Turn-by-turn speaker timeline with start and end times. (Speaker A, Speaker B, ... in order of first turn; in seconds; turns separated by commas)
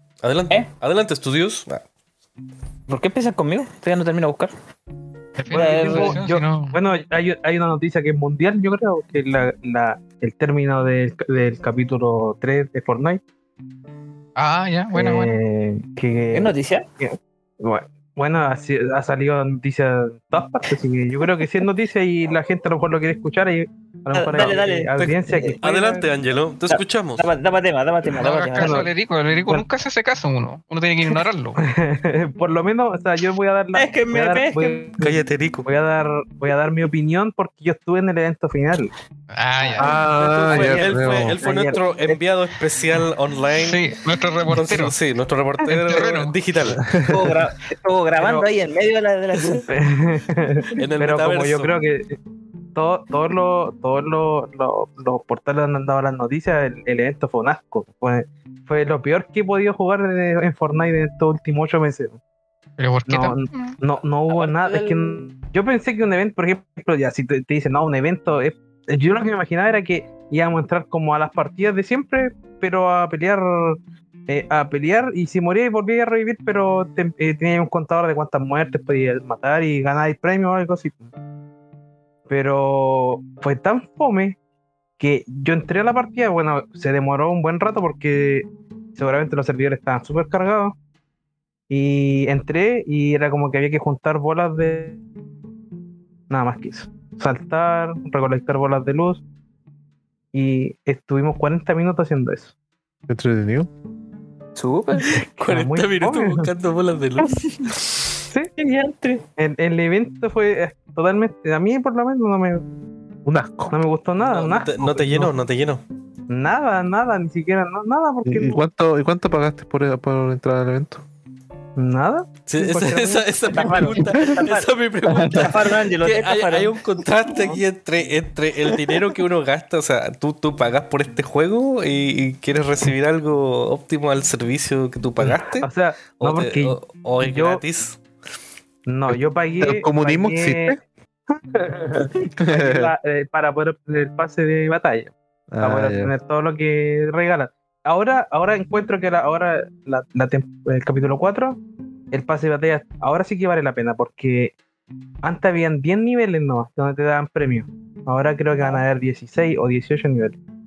Speaker A: 0.2-1.8, Speaker B: 2.9-4.5, Speaker C: 5.4-6.8, Speaker B: 5.5-6.2, Speaker D: 5.5-13.2, Speaker C: 14.4-15.4, Speaker D: 14.9-26.1, Speaker B: 16.3-16.9, Speaker B: 24.1-25.6, Speaker A: 24.4-27.2, Speaker B: 26.7-28.9, Speaker C: 28.1-31.6, Speaker D: 28.6-28.9, Speaker D: 31.6-38.9, Speaker B: 33.8-34.8, Speaker A: 35.0-35.7, Speaker C: 39.3-40.0, Speaker B: 39.6-39.9, Speaker E: 39.8-41.4, Speaker A: 40.1-43.8, Speaker D: 40.5-42.2, Speaker C: 43.6-45.0, Speaker A: 44.5-47.0, Speaker C: 45.7-46.4, Speaker D: 46.8-47.2, Speaker B: 47.0-49.7, Speaker D: 48.2-48.5, Speaker D: 49.7-52.2, Speaker A: 50.8-51.7, Speaker D: 52.8-62.2, Speaker C: 62.8-63.8, Speaker D: 63.1-81.1, Speaker B: 64.3-65.1, Speaker D: 82.3-84.4, Speaker D: 85.0-90.8, Speaker D: 91.7-95.0, Speaker D: 96.3-99.2, Speaker D: 100.3-102.5, Speaker E: 103.1-103.7, Speaker B: 104.5-105.2, Speaker D: 105.3-106.5, Speaker A: 105.4-107.9, Speaker B: 107.2-107.7, Speaker B: 108.6-109.2, Speaker D: 109.4-112.7, Speaker E: 113.3-113.8, Speaker D: 113.7-115.3, Speaker A: 114.2-115.8, Speaker D: 116.3-118.6, Speaker E: 118.2-121.0, Speaker D: 121.8-124.3, Speaker A: 122.5-138.0, Speaker B: 123.5-126.7, Speaker E: 125.1-125.5, Speaker D: 135.3-137.6, Speaker D: 138.9-140.8, Speaker E: 139.1-140.8, Speaker D: 141.3-151.6, Speaker E: 142.4-142.9, Speaker E: 145.5-146.1, Speaker D: 152.1-154.5, Speaker D: 155.2-160.4